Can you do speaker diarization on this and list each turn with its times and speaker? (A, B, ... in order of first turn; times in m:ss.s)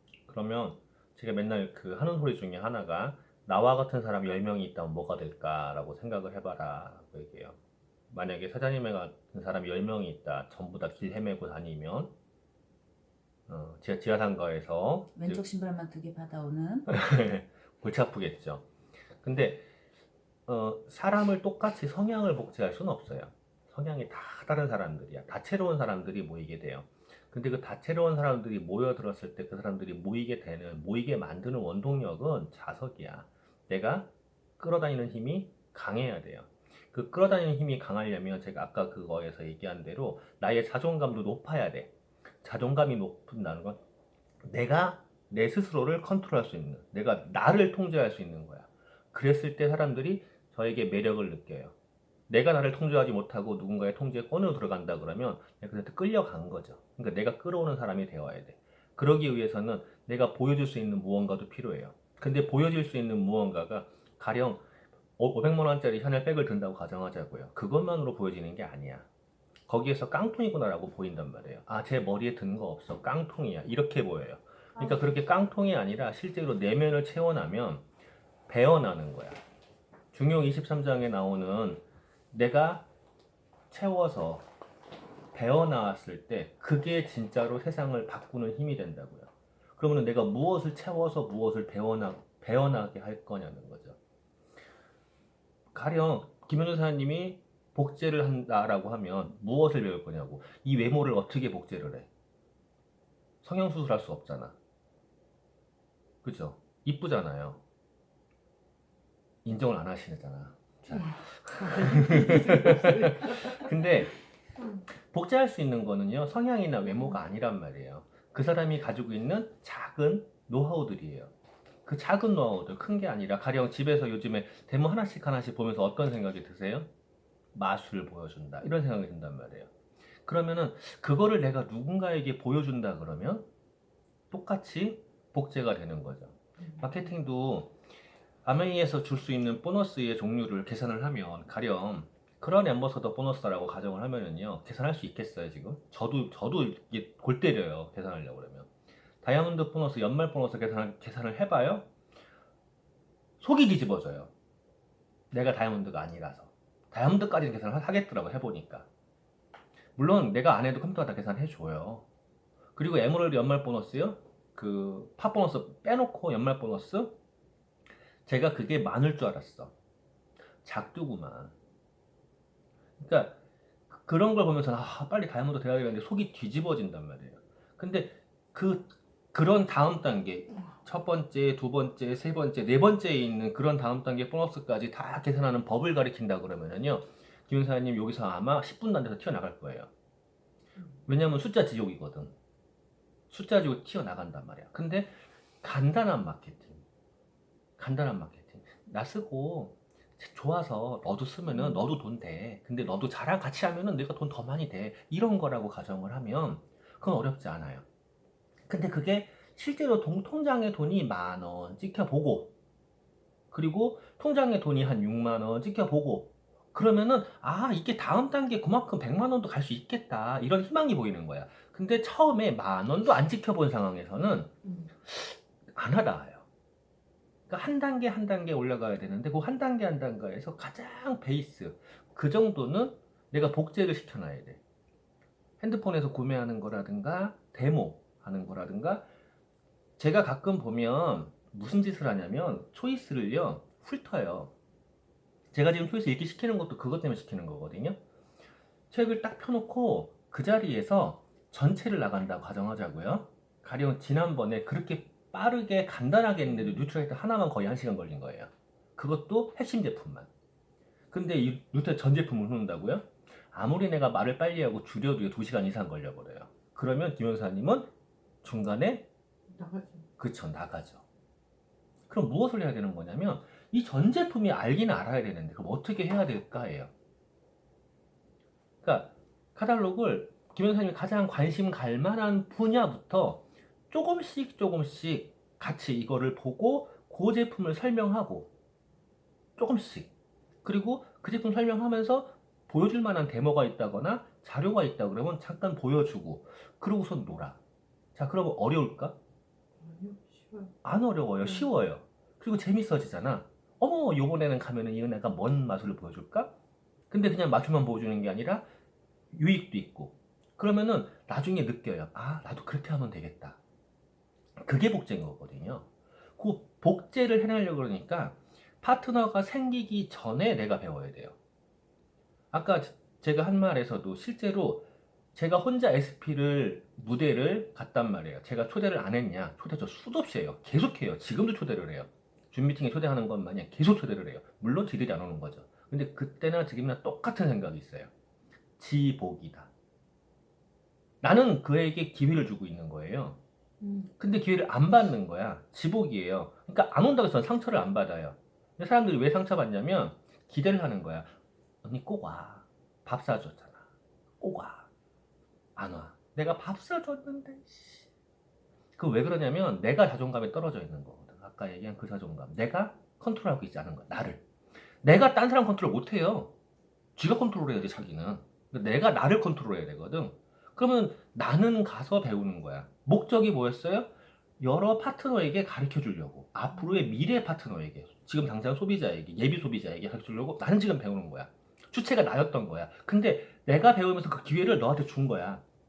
0:00.2-0:07.6 A
0:08.1-0:12.1 A
0:13.5-0:15.4 A
0:15.1-0:16.9 B
0:16.9-0:18.7 A
0:19.2-0:19.6 A
0:20.5-0:41.9 A
0:42.4-0:43.8 A
0:44.4-0:51.7 A
0:52.3-1:04.6 A
1:05.2-1:09.1 A
1:09.7-1:17.8 A
1:18.5-1:19.4 A
1:20.1-1:22.9 A
1:23.7-1:24.5 A
1:25.3-1:34.0 A
1:35.7-1:42.1 A
1:43.4-1:44.6 A
1:46.2-1:47.6 A
1:49.4-1:54.1 A
1:51.0-1:53.7 C
1:55.0-2:01.3 A
2:01.8-2:06.9 A
2:07.5-2:09.7 A
2:10.2-2:13.4 A
2:14.3-2:17.7 A
2:18.4-2:28.7 A
2:29.2-2:31.9 A
2:33.4-2:34.3 A
2:35.3-2:38.9 A
2:40.0-2:42.0 A
2:42.7-2:47.1 A
2:48.2-2:49.7 A
2:50.6-2:51.5 A
2:53.0-2:53.4 A
2:53.9-3:09.9 A
3:11.1-3:12.3 A
3:13.3-3:16.8 A
3:17.8-3:27.8 A
3:21.5-3:21.8 B
3:28.7-3:32.5 A
3:33.5-3:44.5 A
3:45.0-3:46.4 A
3:47.5-3:54.6 A
3:55.6-3:59.1 A
4:00.0-4:04.5 A
4:05.5-4:08.0 A
4:08.9-4:20.3 A
4:21.1-4:27.9 A
4:28.4-4:29.1 A
4:29.5-4:30.0 C
4:30.2-4:31.0 A
4:32.1-4:36.9 A
4:38.8-4:48.5 A
4:49.6-4:50.1 A
4:50.6-4:57.6 A
4:58.1-4:59.2 A
4:59.8-5:00.7 C
5:00.8-5:06.5 A
5:07.1-5:08.7 A
5:09.3-5:13.6 A
5:14.6-5:21.4 A
5:22.5-5:38.1 A
5:38.8-5:39.7 A
5:41.2-5:43.4 A
5:43.8-5:44.1 B
5:44.2-5:51.3 A
5:51.8-5:53.8 A
5:54.4-5:54.9 A
5:55.8-5:58.1 A
5:59.0-6:04.4 A
6:05.0-6:06.5 A
6:07.2-6:25.6 A
6:16.7-6:17.0 B